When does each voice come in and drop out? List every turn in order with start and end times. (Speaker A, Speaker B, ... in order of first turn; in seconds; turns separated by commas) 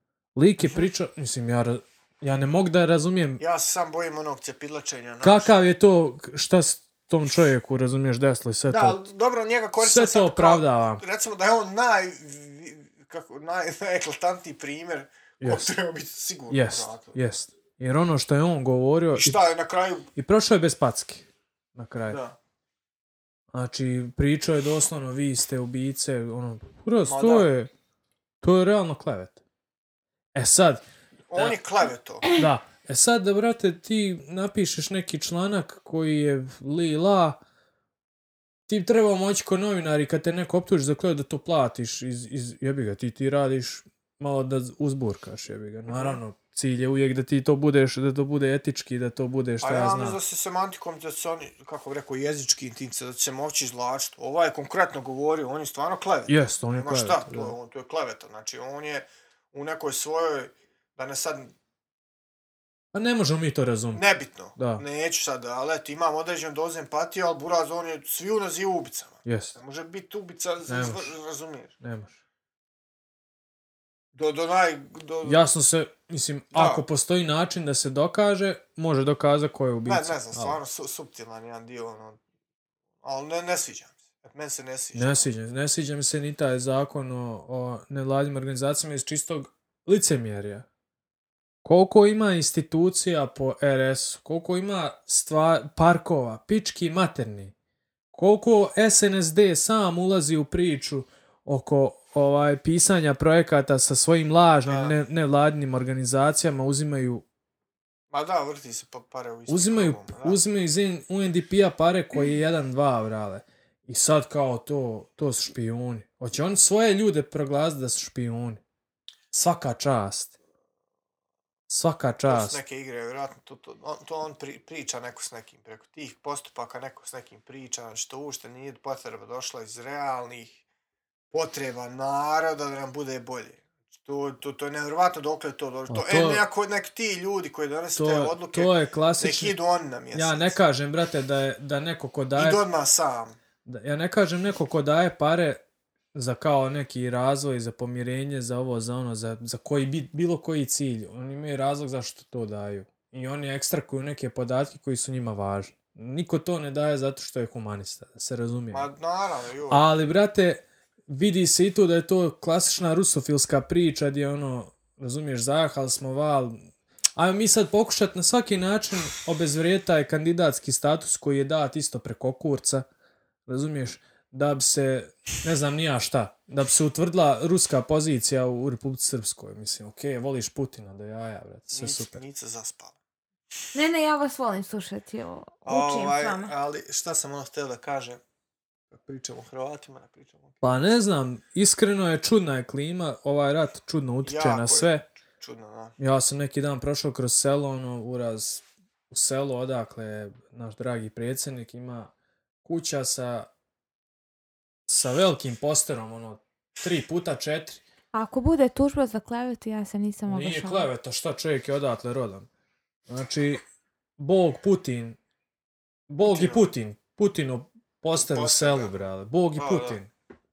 Speaker A: 0.4-3.4, Speaker B: 3.4-5.5, Speaker A: 5.2-9.0, Speaker B: 8.7-17.2, Speaker A: 9.8-11.0, Speaker A: 15.4-15.7, Speaker A: 16.5-19.4, Speaker B: 19.1-20.1, Speaker A: 20.2-21.2, Speaker A: 21.8-22.2, Speaker B: 22.1-22.4, Speaker A: 23.5-27.7, Speaker B: 27.1-27.5, Speaker A: 28.4-29.4, Speaker A: 30.4-30.8, Speaker B: 31.3-32.3, Speaker A: 32.3-37.4, Speaker A: 38.7-50.2, Speaker B: 45.9-46.2, Speaker B: 49.6-61.5, Speaker A: 56.3-57.5, Speaker A: 62.9-64.0, Speaker B: 63.9-71.7, Speaker A: 64.6-64.8, Speaker A: 69.2-69.6, Speaker A: 70.7-71.1, Speaker A: 71.8-72.1, Speaker B: 74.1-75.5, Speaker A: 75.2-80.6, Speaker B: 76.5-76.8, Speaker B: 79.9-82.2, Speaker B: 83.0-85.3, Speaker A: 85.0-90.7, Speaker A: 91.6-97.5, Speaker A: 98.1-107.2, Speaker B: 104.7-105.0, Speaker B: 108.1-110.4, Speaker A: 109.5-118.6, Speaker A: 119.3-120.3, Speaker A: 121.7-122.6, Speaker B: 122.3-130.6, Speaker B: 131.3-140.6, Speaker A: 135.9-136.4, Speaker A: 138.0-139.6, Speaker A: 140.1-142.6, Speaker B: 142.4-143.4, Speaker A: 143.7-145.6, Speaker A: 146.1-158.9, Speaker B: 158.7-159.9, Speaker A: 159.7-166.6, Speaker A: 167.2-172.9, Speaker A: 173.5-182.2, Speaker B: 181.7-183.0, Speaker C: 183.7-186.5, Speaker B: 185.7-188.2, Speaker B: 188.9-190.6, Speaker A: 190.6-195.1, Speaker B: 194.2-196.0, Speaker A: 196.0-202.1, Speaker A: 202.6-203.5, Speaker A: 204.9-207.8, Speaker C: 208.1-210.9, Speaker A: 210.3-212.5, Speaker A: 213.1-213.6, Speaker A: 214.2-215.2, Speaker A: 216.1-220.1, Speaker B: 216.2-216.7, Speaker B: 218.1-218.9, Speaker B: 219.6-220.0